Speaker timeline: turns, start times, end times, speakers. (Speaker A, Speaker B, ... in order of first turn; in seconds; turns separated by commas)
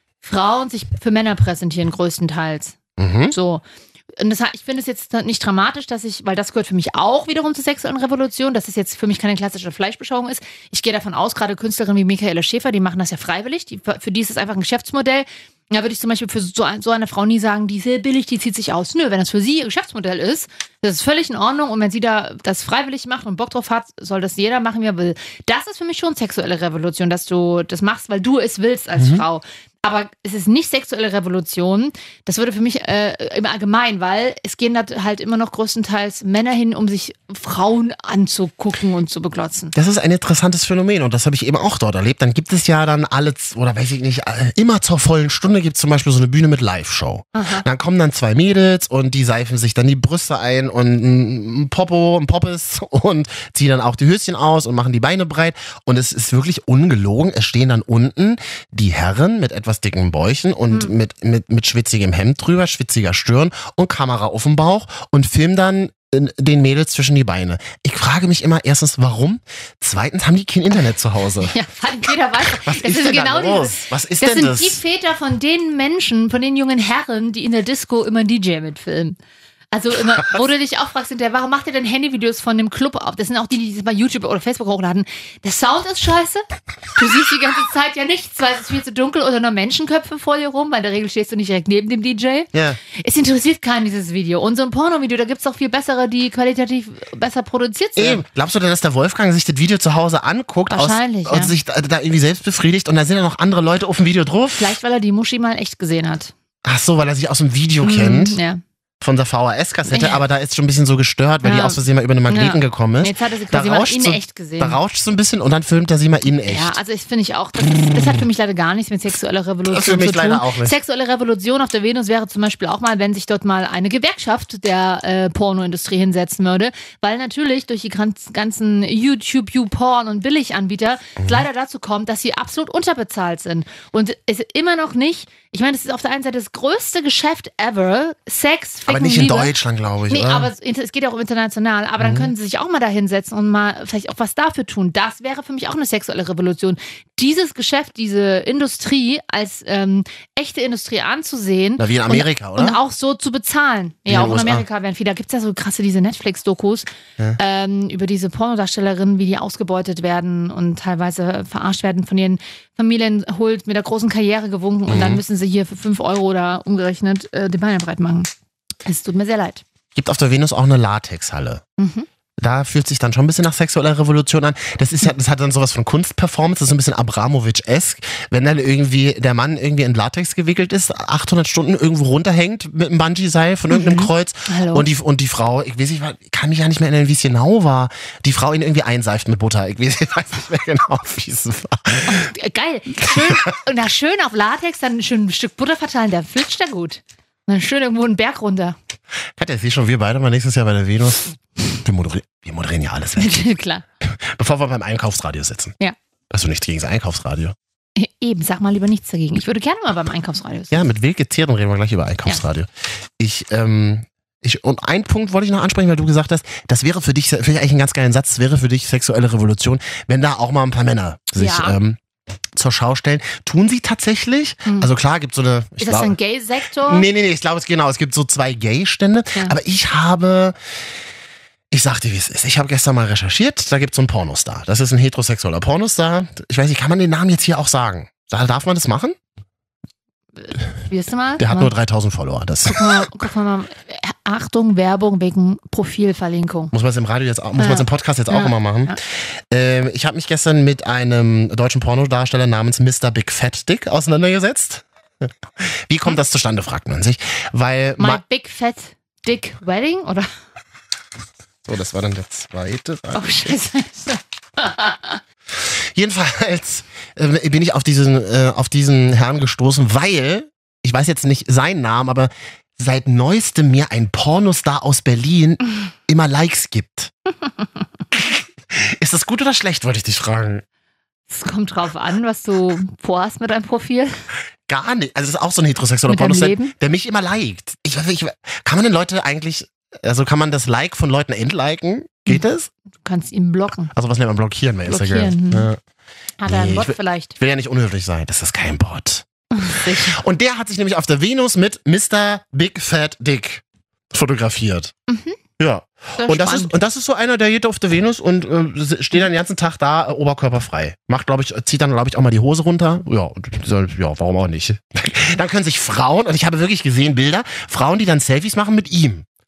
Speaker A: 0.2-2.8, Speaker B: 3.0-3.4, Speaker A: 3.3-39.7, Speaker B: 29.0-29.2, Speaker B: 39.7-71.5, Speaker A: 47.3-47.7, Speaker A: 71.4-79.2, Speaker B: 72.4-74.8, Speaker A: 79.7-86.4, Speaker A: 87.0-98.2, Speaker B: 92.5-92.8, Speaker B: 98.0-104.8, Speaker A: 100.7-101.5, Speaker A: 104.6-106.3, Speaker B: 106.7-108.4, Speaker A: 107.8-108.6, Speaker B: 109.0-116.8, Speaker A: 109.9-110.2, Speaker A: 111.4-114.8, Speaker A: 116.5-139.5, Speaker B: 119.7-120.8, Speaker B: 131.2-131.4, Speaker B: 138.9-140.5, Speaker A: 140.1-168.3, Speaker B: 142.0-142.3, Speaker B: 151.8-152.8, Speaker B: 154.1-154.7, Speaker B: 164.9-165.2, Speaker A: 168.8-169.6, Speaker B: 169.9-171.6, Speaker A: 171.8-172.1, Speaker B: 172.4-192.3, Speaker A: 183.7-184.9, Speaker A: 192.1-198.8, Speaker B: 193.1-193.6, Speaker B: 199.4-205.8, Speaker A: 203.2-203.8, Speaker B: 206.3-207.6, Speaker A: 208.0-210.9, Speaker B: 210.7-222.0, Speaker A: 221.3-221.8, Speaker B: 222.6-226.2, Speaker A: 224.7-224.9, Speaker A: 225.8-227.1, Speaker B: 226.8-230.6, Speaker B: 231.7-239.2, Speaker A: 240.4-241.7, Speaker B: 241.4-243.1, Speaker A: 242.7-246.7, Speaker B: 246.7-249.0, Speaker A: 247.6-249.0, Speaker B: 249.5-258.2, Speaker A: 258.0-260.3, Speaker B: 261.7-263.6, Speaker A: 263.1-265.2, Speaker B: 265.5-277.1, Speaker B: 278.1-280.6, Speaker A: 281.3-284.1, Speaker B: 284.7-292.7, Speaker A: 286.1-286.8, Speaker A: 293.0-293.9, Speaker B: 293.9-295.8, Speaker A: 294.9-295.7, Speaker A: 296.4-297.4, Speaker B: 296.5-304.9, Speaker A: 299.5-300.2, Speaker A: 305.1-305.4, Speaker B: 305.6-319.3, Speaker A: 306.2-306.8